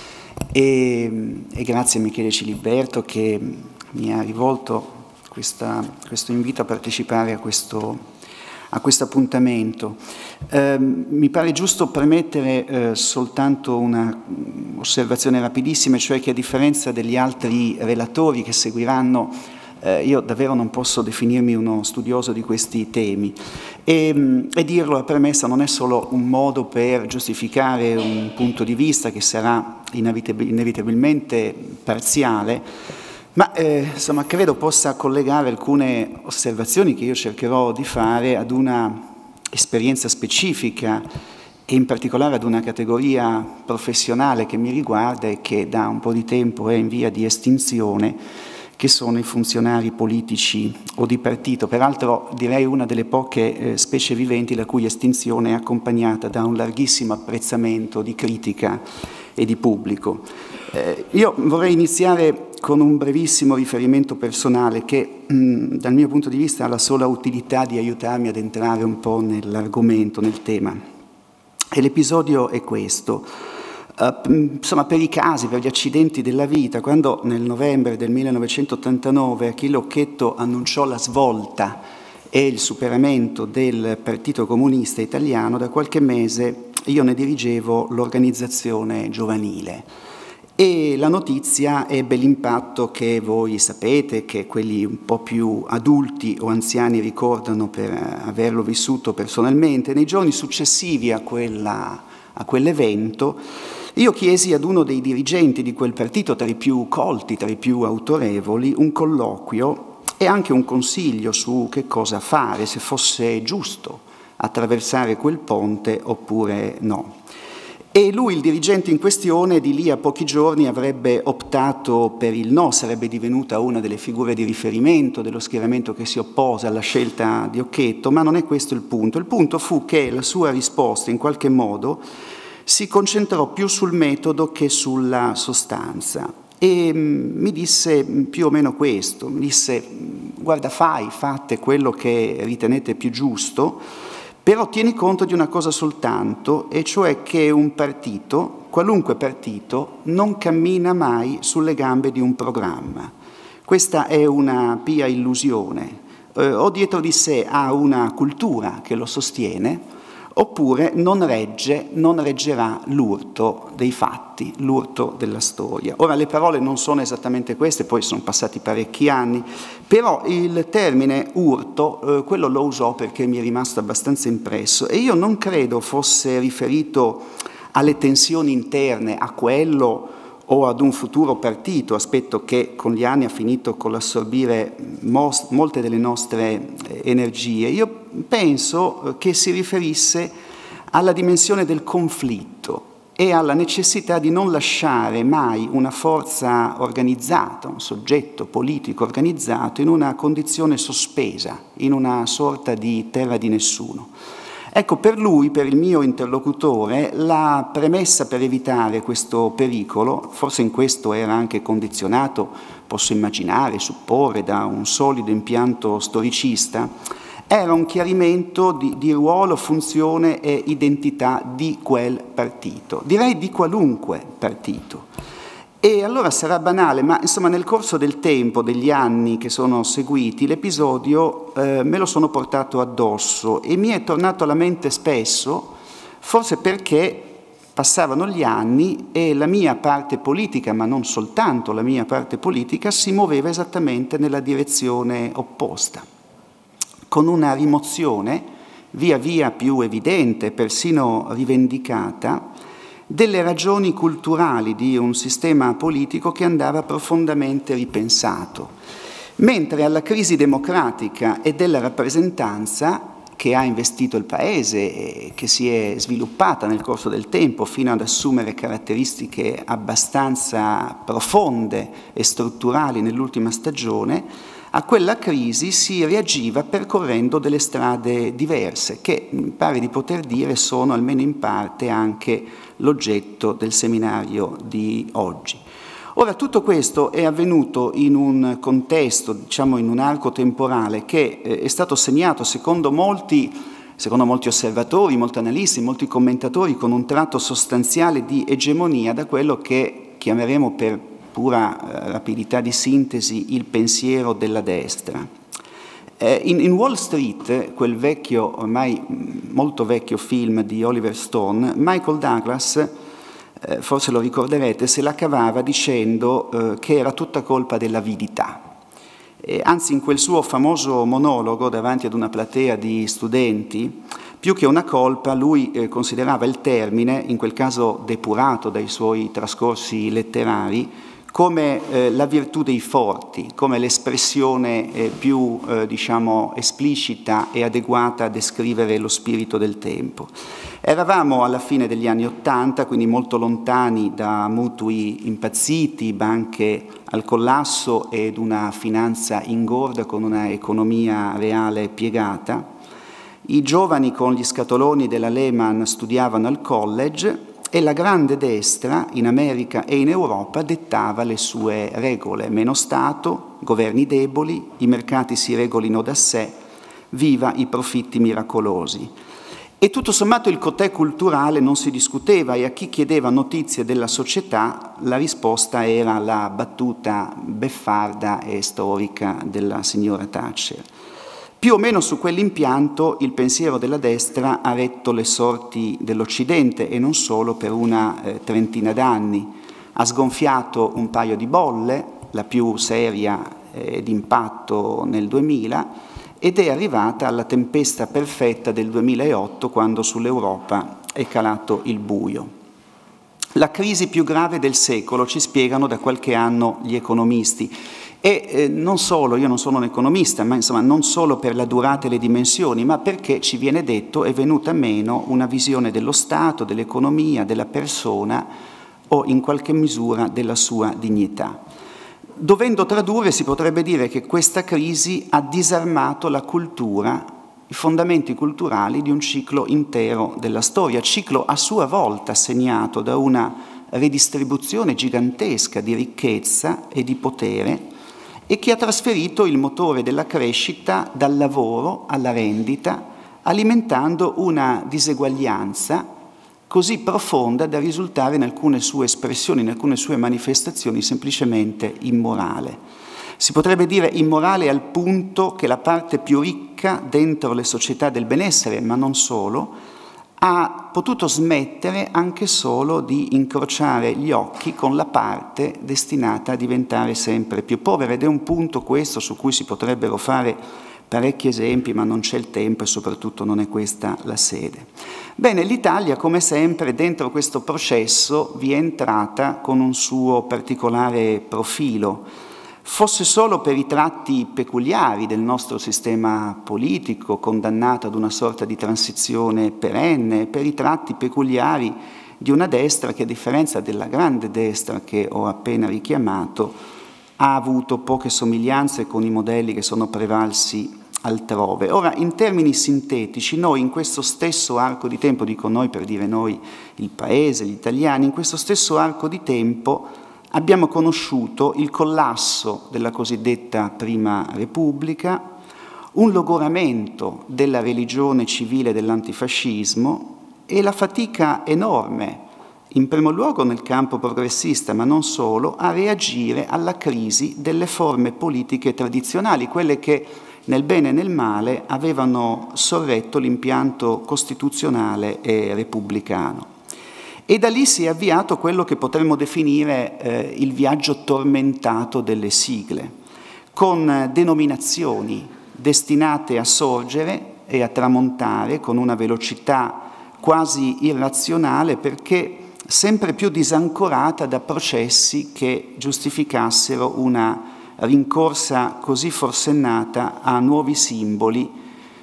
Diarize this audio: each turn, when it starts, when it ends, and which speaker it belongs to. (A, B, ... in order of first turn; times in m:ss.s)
0:00.5-0:08.0 A
0:08.7-0:10.0 A
0:10.5-0:32.6 A
0:33.4-0:39.0 A
0:39.5-0:41.0 A
0:41.7-0:48.2 A
0:48.8-0:58.8 A
0:59.4-1:10.8 A
1:11.7-1:13.3 A
1:14.0-1:21.8 A
1:22.3-1:29.9 A
1:30.6-1:43.4 A
1:44.0-1:57.2 A
1:57.9-2:12.0 A
2:12.7-2:23.8 A
2:24.4-2:33.1 A
2:33.7-2:39.8 A
2:40.4-3:10.3 A
3:10.9-3:24.1 A
3:24.7-3:36.9 A
3:37.5-3:45.0 A
3:45.8-4:06.0 A
4:07.1-4:12.4 A
4:13.1-4:18.7 A
4:19.4-4:45.6 A
4:46.2-5:05.3 A
5:06.2-5:12.9 A
5:13.6-5:18.6 A
5:19.4-5:52.7 A
5:53.4-6:06.6 A
6:07.1-6:09.1 A
6:09.8-6:20.8 A
6:21.6-6:35.9 A
6:36.4-6:42.5 A
6:43.6-6:58.5 A
6:59.1-7:01.6 A
7:02.4-7:17.8 A
7:18.5-7:26.0 A
7:26.7-7:32.8 A
7:33.4-7:39.8 A
7:40.4-8:02.3 A
8:02.8-8:16.8 A
8:17.4-8:35.4 A
8:36.2-8:56.7 A
8:57.5-9:03.1 A
9:03.8-9:21.7 A